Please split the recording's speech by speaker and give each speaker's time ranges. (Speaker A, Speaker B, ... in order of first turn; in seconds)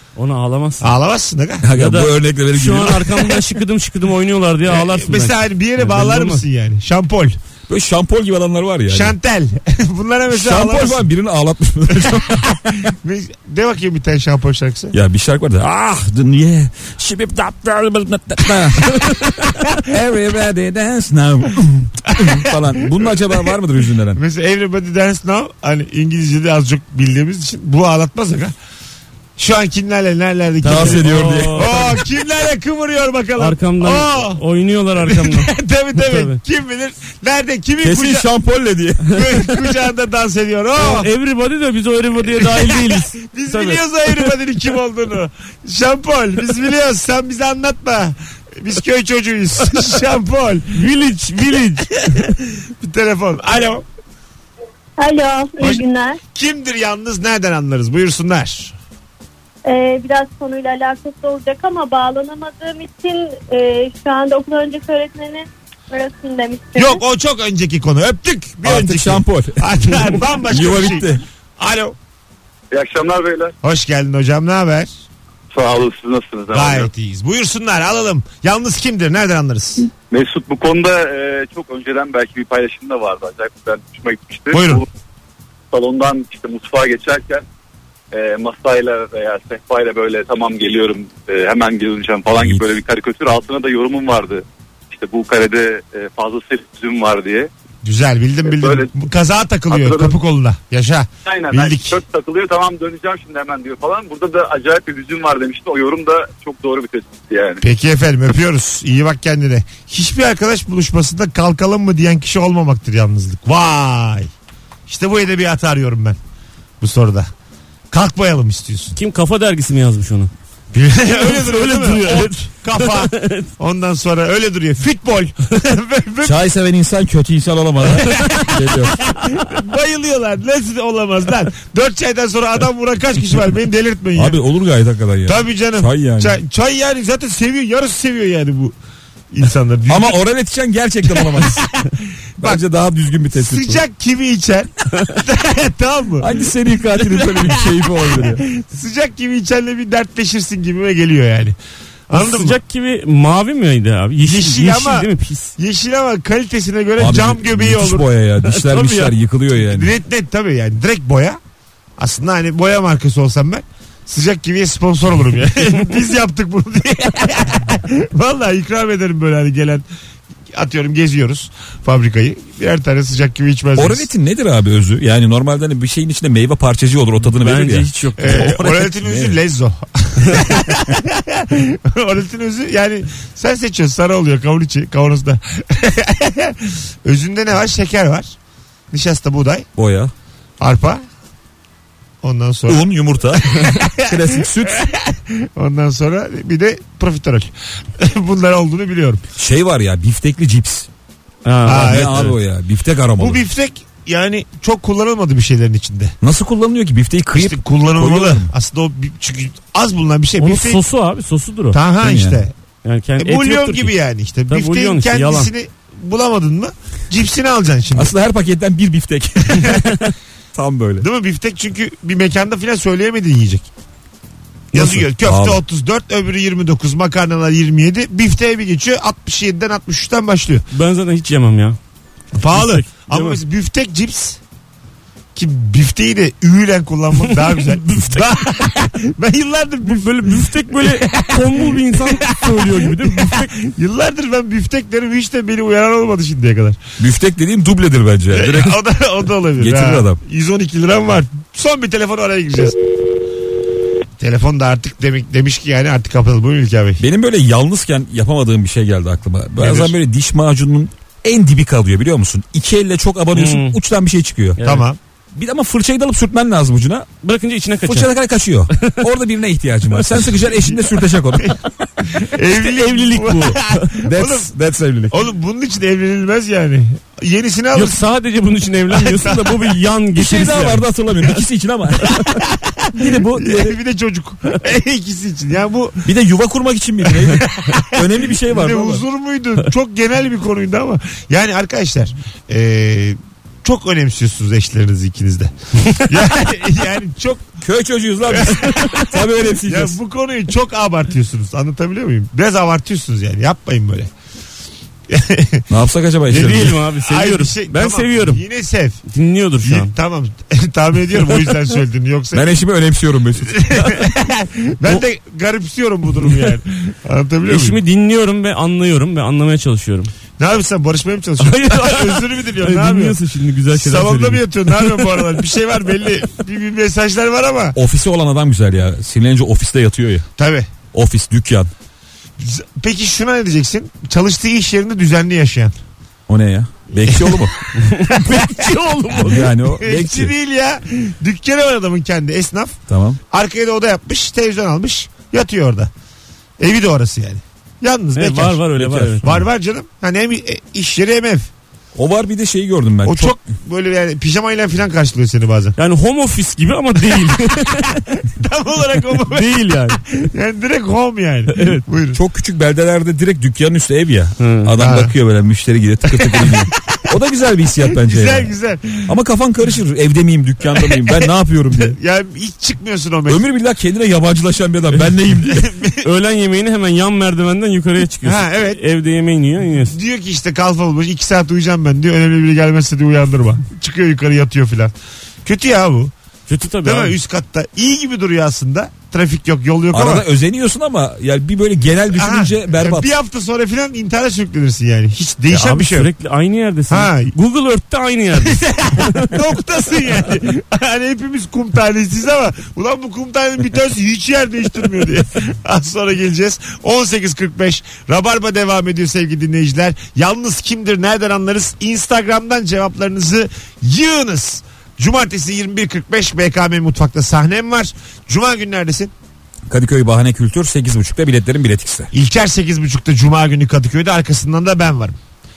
Speaker A: 0.1-0.9, 1.7-6.4, 30.6-32.0, 33.4-36.4, 40.8-44.3, 50.7-51.9, 118.9-120.3, 121.1-123.5, 152.1-155.6, 158.4-159.1, 177.3-178.9, 201.4-202.3, 210.4-211.8, 212.8-213.9, 214.5-215.5, 224.7-225.0, 230.7-231.8, 232.5-233.4, 237.3-238.2, 239.8-243.5, 259.6-259.9, 263.3-263.8, 264.6-264.8, 267.2-268.1, 268.8-269.0, 272.5-273.9, 277.7-280.9, 306.3-308.4, 309.1-309.9, 317.5-320.1, 321.4-325.2, 337.7-339.5, 348.1-349.4, 355.8-358.0, 359.2-360.1, 361.5-361.8, 364.4-364.7, 376.0-379.9, 386.5-387.1, 395.5-399.3
Speaker B: 0.8-1.7, 4.7-7.4, 8.9-11.0, 12.0-14.9, 22.1-23.3, 24.1-28.5, 29.4-34.4, 34.9-38.3, 39.1-41.1, 42.4-50.8, 52.0-53.8, 55.6-58.7, 66.8-72.0, 73.6-74.9, 76.5-79.9, 84.5-84.8, 97.8-102.0, 107.6-114.3, 114.9-116.2, 116.8-117.3, 117.9-118.9, 120.7-126.4, 127.9-134.4, 135.2-138.8, 139.3-140.2, 141.1-142.6, 143.3-146.3, 146.9-151.6, 152.1-152.6, 154.2-158.1, 159.7-161.4, 162.0-169.8, 170.5-174.1, 178.2-188.3, 188.9-189.7, 190.6-191.0, 192.2-199.2, 201.7-202.3, 203.2-206.1, 207.3-210.8, 211.7-212.5, 213.2-218.1, 221.0-223.7, 224.7-230.6, 232.3-234.4, 235.3-246.8, 248.3-252.8, 254.2-257.0, 264.6-265.0, 272.1-274.5, 275.1-278.0, 278.9-279.6, 282.4-286.1, 287.2-297.6, 298.2-304.1, 305.1-305.7, 306.9-309.0, 309.6-312.5, 313.4-317.8, 320.4-323.2, 323.7-327.8, 330.4-330.7, 332.4-335.8, 337.0-337.5, 338.1-338.8, 339.6-345.9, 346.6-348.7, 349.2-351.5, 353.0-355.8, 358.2-359.5, 360.1-362.2, 364.8-365.1, 366.1-366.7, 367.9-369.1, 370.7-373.4, 375.5-376.0, 378.2-378.8, 379.9-386.1, 386.8-390.3, 392.1-396.1, 396.9-397.3, 398.4-419.1, 422.1-425.2
Speaker C: 1.6-3.4, 7.7-9.1, 10.3-12.6, 14.9-24.2, 30.6-31.9, 37.8-39.2, 68.6-71.2, 92.3-92.7, 126.2-129.0, 134.2-136.4, 139.9-141.7, 142.4-143.8, 146.2-148.4, 157.0-159.9, 173.8-177.9, 179.0-179.3, 189.8-190.1, 192.7-194.9, 199.4-200.9, 201.7-203.4, 206.2-208.5, 212.0-212.4, 217.9-221.0, 225.2-225.6, 247.0-248.8, 249.6-250.2, 257.0-264.6, 265.3-267.1, 267.8-271.6, 274.0-275.1, 280.1-282.4, 282.9-283.7, 286.0-289.0, 297.6-299.9, 305.7-306.8, 312.3-313.9, 327.7-330.3, 330.9-331.7, 336.3-337.6, 339.2-340.3, 342.9-343.2, 348.7-349.3, 351.9-353.4, 362.1-368.5, 369.1-372.0, 373.3-375.7, 389.9-393.1, 419.7-422.1
Speaker D: 55.0-56.2, 59.6-67.0
Speaker E: 72.7-73.5, 75.5-76.9, 80.1-84.8, 85.7-87.4, 88.1-97.5, 98.5-98.9, 99.7-100.2, 101.2-107.6